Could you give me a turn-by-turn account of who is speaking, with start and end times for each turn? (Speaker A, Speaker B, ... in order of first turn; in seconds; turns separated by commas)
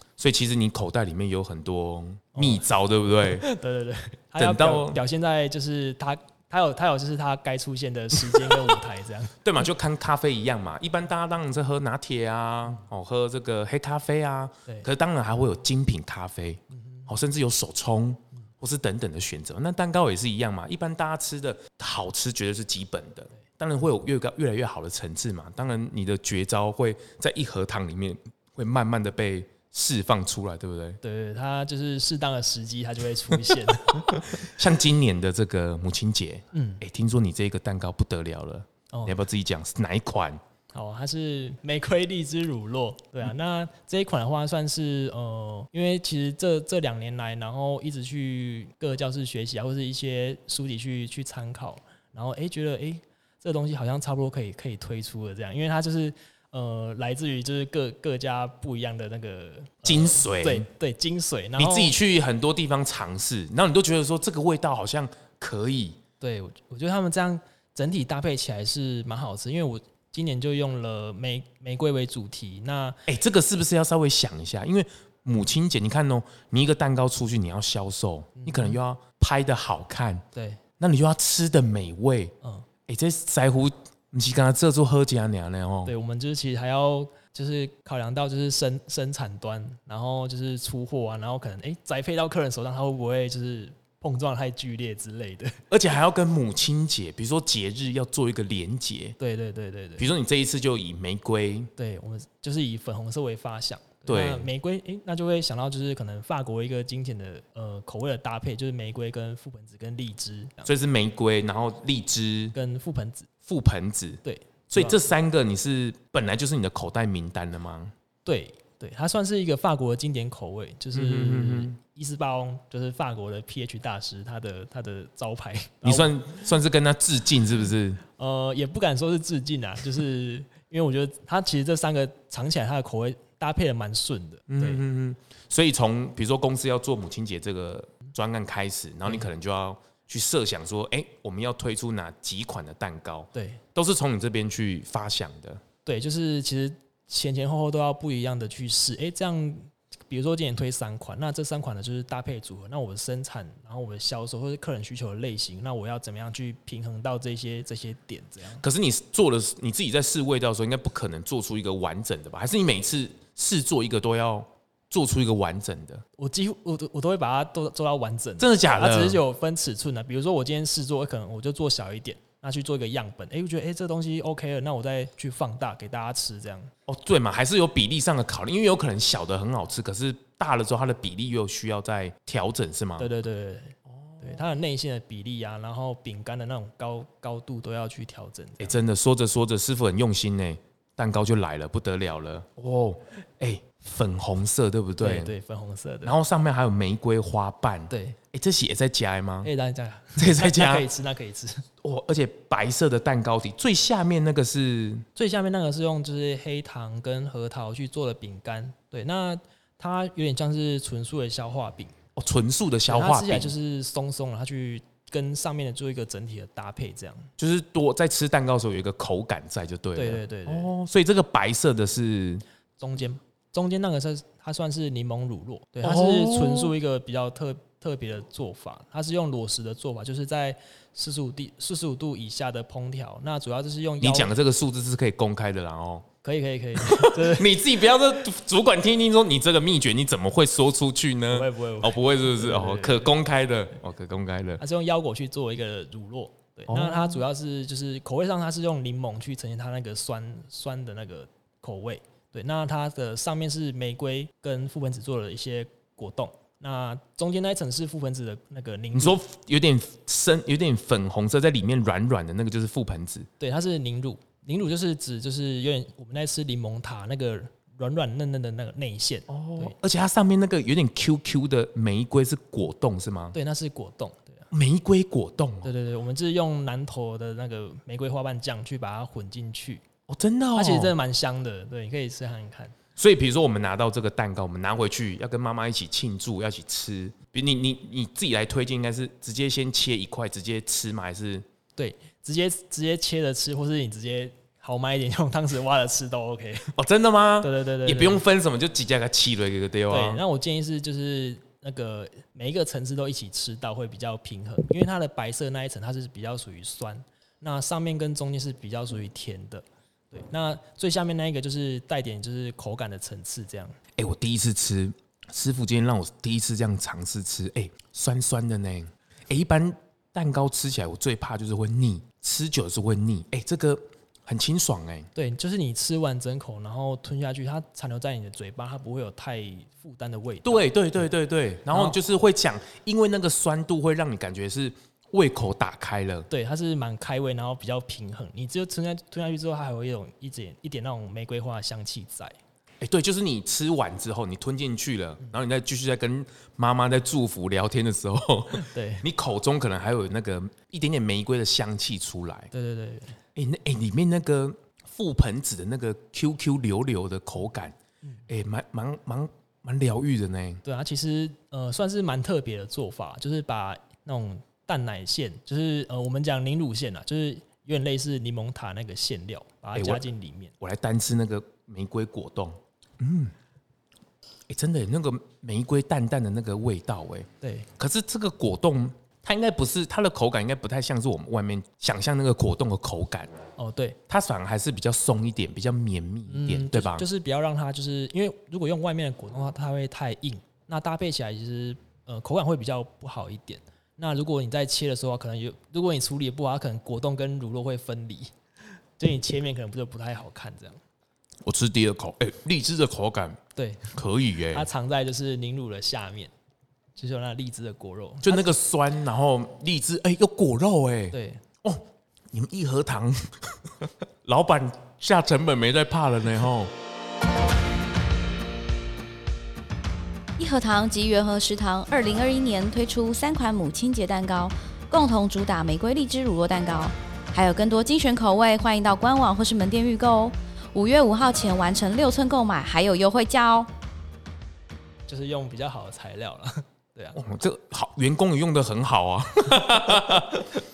Speaker A: 0.2-3.5, Speaker B: 2.4-2.7, Speaker B: 3.2-9.3, Speaker A: 4.4-5.0, Speaker A: 9.4-31.0, Speaker B: 16.7-17.1, Speaker B: 31.0-34.5, Speaker A: 34.0-40.4, Speaker B: 36.5-36.8, Speaker B: 40.7-62.0, Speaker A: 59.9-60.7, Speaker A: 61.6-66.0, Speaker B: 66.2-73.0, Speaker A: 73.1-80.2, Speaker B: 78.4-78.8, Speaker B: 80.3-80.6, Speaker A: 80.8-82.3, Speaker A: 82.9-85.9, Speaker B: 85.9-95.6, Speaker A: 95.7-99.2, Speaker B: 99.2-100.1, Speaker A: 100.0-101.7, Speaker B: 101.8-110.7, Speaker A: 104.1-104.5, Speaker A: 110.7-112.5, Speaker B: 112.5-113.3, Speaker A: 113.5-117.9, Speaker B: 114.2-115.0, Speaker B: 118.2-126.2, Speaker A: 120.9-121.8, Speaker A: 125.8-128.0, Speaker B: 128.0-134.8, Speaker A: 134.5-145.6, Speaker B: 143.3-143.6, Speaker B: 145.8-158.6, Speaker A: 158.6-166.1, Speaker B: 166.2-176.7, Speaker A: 168.4-169.2, Speaker A: 176.9-183.1, Speaker B: 183.0-188.8, Speaker A: 188.6-195.3, Speaker B: 195.0-196.2, Speaker A: 196.0-199.5, Speaker B: 197.9-198.2, Speaker B: 199.4-201.7, Speaker A: 200.2-200.9, Speaker A: 201.8-205.1, Speaker B: 205.2-211.9, Speaker A: 212.2-213.5, Speaker B: 212.9-217.3, Speaker A: 217.4-222.4, Speaker B: 219.9-220.7, Speaker B: 222.8-234.3, Speaker A: 225.8-226.7, Speaker A: 234.0-236.1, Speaker B: 236.2-237.6, Speaker A: 236.8-244.6, Speaker B: 241.3-243.1, Speaker B: 244.6-259.2, Speaker A: 246.7-247.2, Speaker A: 258.9-263.3, Speaker B: 263.4-269.8, Speaker A: 269.3-273.4, Speaker B: 273.3-274.5, Speaker A: 274.5-275.7, Speaker B: 275.6-279.8, Speaker A: 280.1-280.9, Speaker B: 280.6-282.8, Speaker A: 283.0-291.4, Speaker B: 291.8-296.7, Speaker A: 296.7-300.2, Speaker B: 297.4-298.2, Speaker B: 299.9-313.8, Speaker A: 314.0-325.1, Speaker B: 325.1-330.7, Speaker A: 330.4-336.3, Speaker B: 331.7-332.0, Speaker B: 336.3-342.4, Speaker A: 342.8-352.5, Speaker B: 348.5-349.1, Speaker B: 352.5-353.2, Speaker A: 353.4-357.8, Speaker A: 358.3-360.6, Speaker B: 360.6-370.5, Speaker A: 369.8-370.0, Speaker A: 370.6-373.3, Speaker A: 374.5-383.4, Speaker B: 377.4-377.7, Speaker B: 383.6-384.0, Speaker A: 384.1-387.1, Speaker B: 386.3-398.3, Speaker B: 399.0-400.8, Speaker A: 401.4-403.4, Speaker B: 403.6-403.9, Speaker A: 403.9-404.7, Speaker B: 404.5-406.3, Speaker B: 407.0-408.5, Speaker A: 408.2-416.7, Speaker B: 411.1-411.4, Speaker C: 420.4-433.7, Speaker B: 435.1-437.2, Speaker A: 437.1-440.5